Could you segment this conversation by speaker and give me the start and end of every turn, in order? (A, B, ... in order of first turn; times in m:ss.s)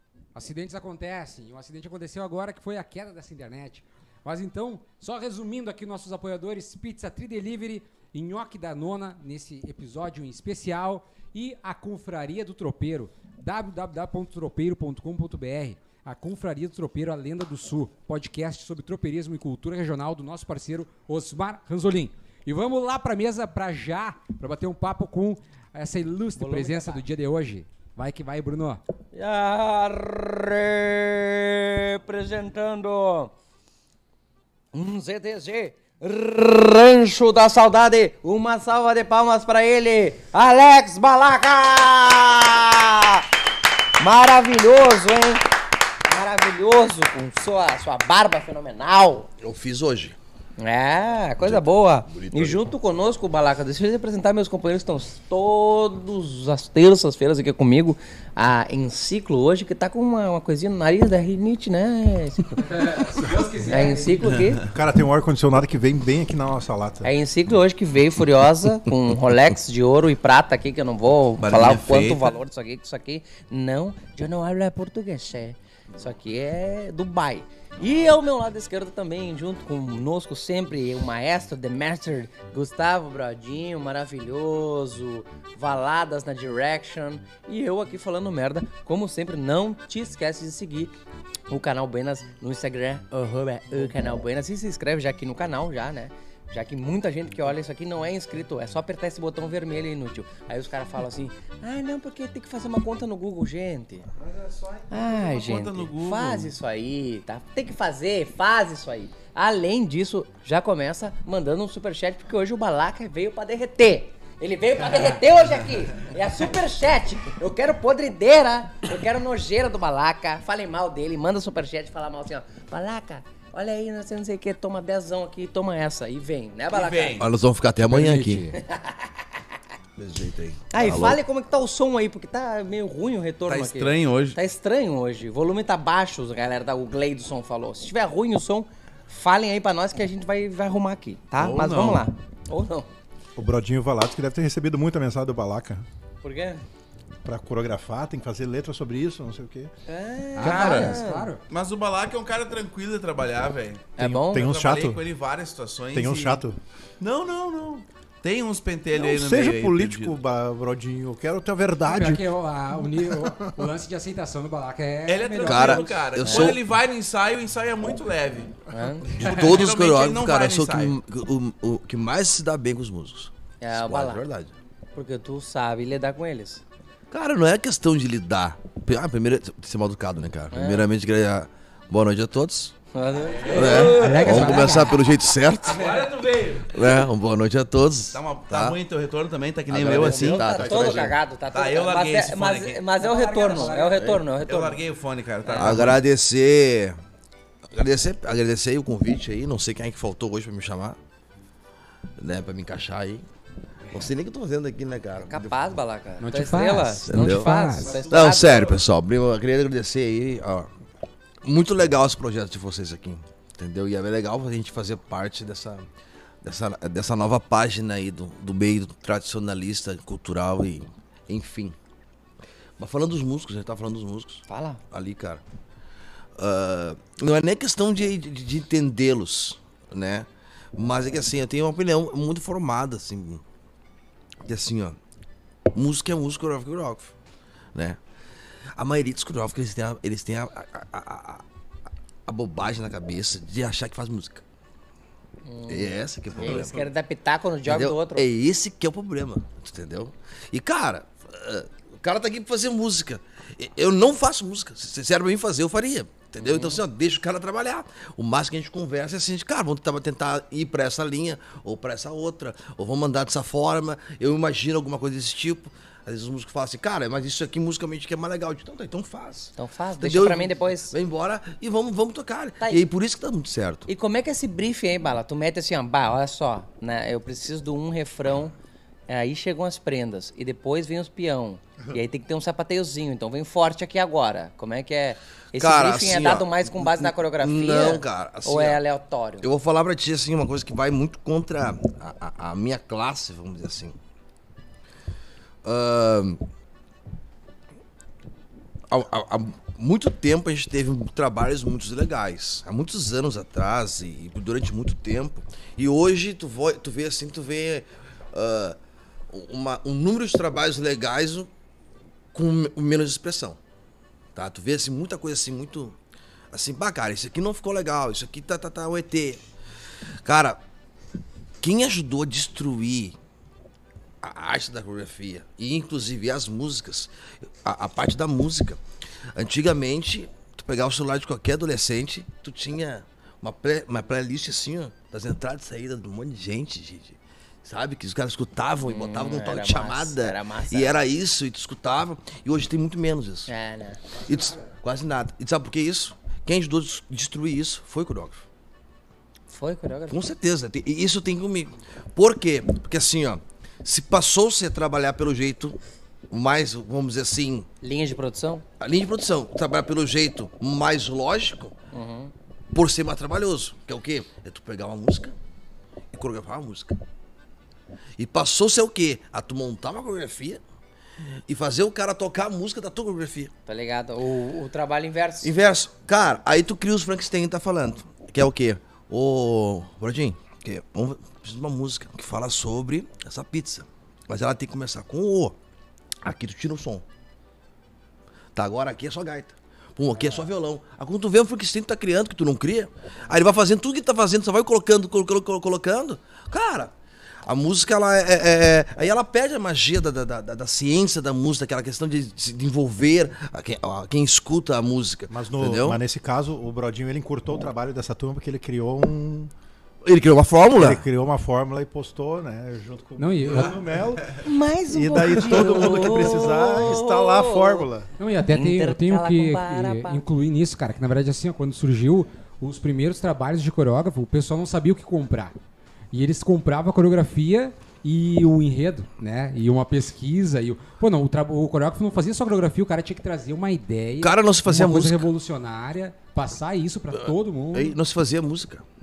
0:00.3-0:28.8 A
0:26.4-0:27.0 B
0:29.1-0:33.3 B
0:34.7-0:43.2 B
0:44.0-0:45.5 B
0:46.0-0:49.3 B
0:49.4-0:50.2 C
0:50.6-1:02.8 B
0:51.4-0:52.7 C
1:02.6-1:04.5 A
1:03.6-1:04.6 B
1:04.6-1:07.1 D
1:07.0-1:30.9 B
1:11.4-1:12.3 E
1:31.5-1:44.1 B
1:44.2-1:46.5 E
1:44.9-2:07.2 B
2:06.7-2:07.3 E
2:07.2-2:08.4 C
2:07.8-2:08.6 A
2:08.6-2:09.1 B
2:10.0-2:11.2 C
2:10.7-2:22.9 B
2:13.4-2:14.4 E
2:21.4-2:22.0 E
2:23.4-2:25.8 D
2:26.2-2:26.6 B
2:27.2-2:29.7 D
2:29.9-2:31.3 B
2:30.4-2:31.4 A
2:30.4-2:36.4 E
2:34.0-2:34.4 B
2:34.0-2:35.0 D
2:35.9-2:36.6 D
2:37.0-2:40.2 E
2:38.9-2:42.3 D
2:41.8-2:45.8 A
2:42.8-2:43.5 D
2:45.1-2:48.6 E
2:45.4-2:46.6 C
2:46.2-2:46.5 B
2:48.7-2:49.2 B
2:49.1-2:51.0 E
2:49.2-2:54.5 C
2:53.6-2:54.2 B
2:54.9-2:56.6 B
2:57.1-3:02.7 C
3:00.5-3:00.9 B
3:02.9-3:04.9 B
3:03.3-3:03.9 E
3:03.5-3:06.0 C
3:03.6-3:05.0 A
3:05.6-3:07.0 E
3:06.7-3:08.8 C
3:08.1-3:12.8 E
3:09.7-3:11.2 C
3:09.9-3:14.8 B
3:13.0-3:14.0 A
3:14.4-3:16.0 E
3:15.4-3:15.9 B
3:15.6-3:17.0 C
3:17.7-3:21.0 C
3:22.2-3:23.2 C
3:23.9-3:25.6 C
3:25.2-3:28.5 B
3:26.2-3:28.0 A
3:27.1-3:27.5 C
3:27.8-3:28.8 E
3:28.1-3:30.7 C
3:31.4-3:35.9 C
3:36.4-3:41.8 C
3:42.8-3:45.4 C
3:44.5-3:44.8 B
3:46.4-3:53.4 C
3:54.4-3:55.0 C
3:55.7-3:57.1 C
3:58.8-4:01.4 C
4:02.3-4:04.4 C
4:05.4-4:08.3 B
4:05.7-4:06.9 C
4:06.4-4:06.7 E
4:07.6-4:33.9 C
4:16.4-4:16.8 B
4:29.6-4:30.9 B
4:33.9-4:38.5 B
4:39.1-4:49.4 B
4:45.6-4:48.8 C
4:49.4-4:54.0 C
4:55.6-4:56.4 C
4:58.9-5:08.8 C
5:09.3-5:11.5 C
5:12.3-5:13.6 C
5:14.3-5:16.0 C
5:16.5-5:19.4 C
5:20.2-5:20.6 C
5:21.6-5:23.2 C
5:24.2-5:28.8 C
5:29.3-5:43.5 C
5:38.8-5:41.0 B
5:43.5-5:44.0 B
5:44.1-5:44.7 A
5:44.2-5:48.4 C
5:49.5-5:50.2 B
5:50.1-5:55.8 C
5:56.3-5:57.7 C
5:57.8-5:58.6 B
5:58.8-6:01.8 C
6:01.9-6:02.3 B
6:02.7-6:05.3 C
6:06.1-6:07.0 C
6:08.2-6:10.6 C
6:11.5-6:13.5 C
6:13.6-6:15.5 B
6:15.4-6:25.6 C
6:26.2-6:27.0 C
6:28.5-6:36.9 C
6:30.2-6:30.4 A
6:37.4-6:46.0 C
6:45.3-6:49.5 D
6:50.0-6:51.0 C
6:50.7-6:58.1 D
6:53.2-6:53.7 A
6:54.4-6:57.8 B
6:58.2-7:05.6 A
6:58.5-7:00.2 B
7:06.1-7:18.0 A
7:14.2-7:15.3 C
7:17.1-7:18.8 C